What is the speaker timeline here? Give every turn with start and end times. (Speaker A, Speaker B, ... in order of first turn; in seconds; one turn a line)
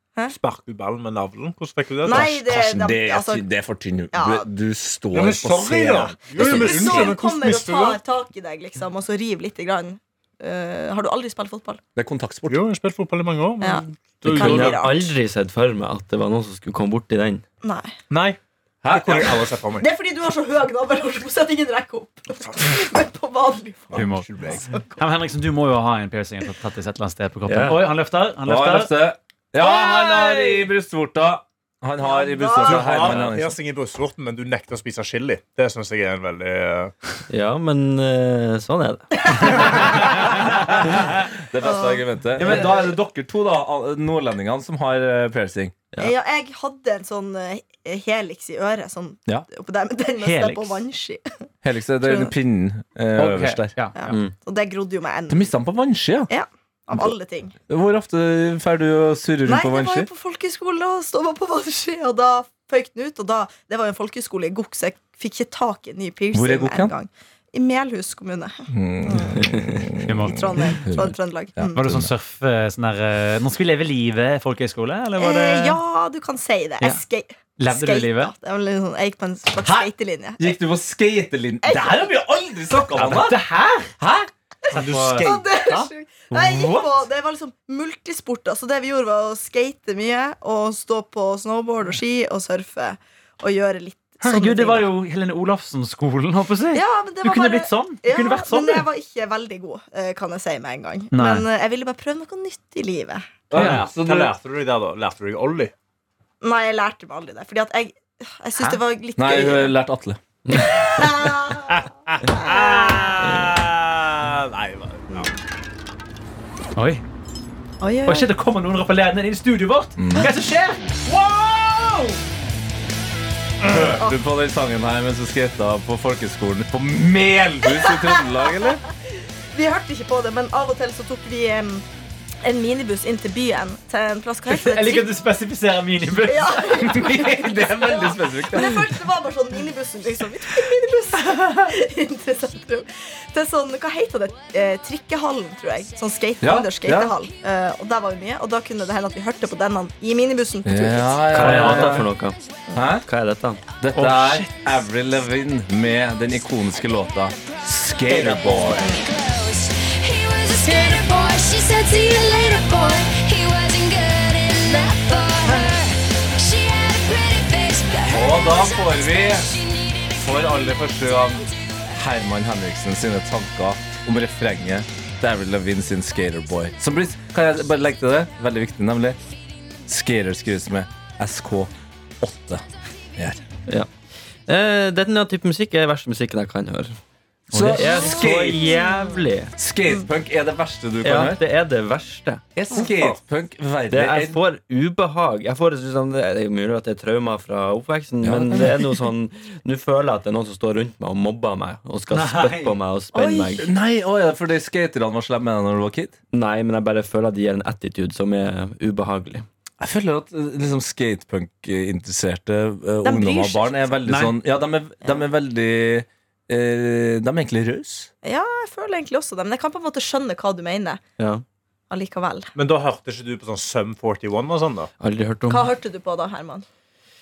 Speaker A: 0.3-2.3
Speaker B: 2.0-3.5
Speaker C: 2.1-7.1
Speaker B: 4.1-4.5
Speaker A: 5.1-8.0
Speaker B: 6.3-11.8
Speaker C: 11.9-12.6
Speaker A: 12.5-14.8
Speaker B: 13.6-15.1
Speaker D: 14.2-17.4
Speaker B: 17.6-17.9
Speaker A: 18.1-18.4
Speaker C: 18.8-19.4
Speaker A: 18.9-19.9
Speaker B: 19.8-24.1
Speaker E: 23.9-24.3
Speaker A: 23.9-24.8
Speaker E: 24.9-28.9
Speaker D: 27.4-27.8
Speaker C: 28.4-33.6
Speaker B: 29.9-30.5
Speaker B: 32.0-33.1
Speaker A: 32.5-36.9
Speaker D: 37.3-39.9
Speaker B: 39.3-39.7
Speaker C: 40.5-45.8
Speaker B: 41.6-42.0
Speaker D: 42.4-42.7
Speaker B: 46.0-51.3
Speaker E: 50.2-50.8
Speaker C: 51.6-53.7
Speaker B: 52.0-52.3
Speaker E: 53.2-54.2
Speaker B: 54.0-55.5
Speaker C: 55.3-56.3
Speaker B: 56.3-57.5
Speaker C: 57.7-60.1
Speaker B: 59.4-69.4
Speaker C: 66.3-66.9
Speaker C: 68.7-72.1
Speaker D: 69.4-69.7
Speaker E: 70.0-70.6
Speaker B: 70.2-71.8
Speaker E: 71.7-75.8
Speaker B: 75.2-80.5
Speaker E: 77.6-78.3
Speaker C: 79.6-83.4
Speaker B: 81.6-82.2
Speaker E: 83.0-83.9
Speaker C: 84.0-84.3
Speaker A: 84.7-85.9
Speaker E: 84.7-85.4
Speaker B: 85.2-94.9
Speaker E: 86.4-86.9
Speaker E: 94.2-98.9
Speaker B: 96.7-103.3
Speaker E: 101.1-101.5
Speaker C: 103.5-104.3
Speaker A: 103.5-105.7
Speaker E: 103.5-103.8
Speaker B: 106.4-109.7
Speaker C: 109.2-110.2
Speaker D: 110.5-110.8
Speaker B: 110.5-111.8
Speaker A: 111.7-115.3
Speaker B: 112.3-113.0
Speaker E: 116.8-117.0
Speaker B: 117.8-118.3
Speaker E: 118.0-121.0
Speaker C: 120.0-120.3
Speaker C: 123.6-128.8
Speaker B: 127.8-128.7
Speaker B: 129.5-131.8
Speaker B: 132.4-135.1
Speaker E: 134.5-137.3
Speaker B: 136.3-151.6
Speaker C: 136.8-138.8
Speaker C: 146.4-147.1
Speaker C: 150.6-152.1
Speaker D: 151.3-152.4
Speaker E: 151.4-152.0
Speaker C: 152.7-153.1
Speaker D: 153.0-153.6
Speaker C: 153.8-159.0
Speaker E: 153.9-154.7
Speaker F: 158.7-170.7
Speaker C: 168.1-169.5
Speaker C: 170.1-179.2
Speaker C: 179.8-182.6
Speaker C: 183.2-183.4
Speaker D: 184.4-187.0
Speaker E: 187.5-188.1
Speaker C: 187.5-188.8
Speaker D: 187.6-189.5
Speaker C: 189.6-191.4
Speaker D: 191.0-192.5
Speaker C: 192.5-194.4
Speaker D: 193.9-203.7
Speaker C: 198.2-198.9
Speaker E: 202.1-202.7
Speaker B: 203.1-203.5
Speaker C: 203.5-206.2
Speaker D: 206.3-209.4
Speaker C: 209.8-218.1
Speaker B: 213.0-214.0
Speaker E: 214.1-214.3
Speaker B: 218.2-221.0
Speaker B: 221.9-222.5
Speaker A: 222.5-224.9
Speaker D: 225.0-225.7
Speaker B: 225.5-226.6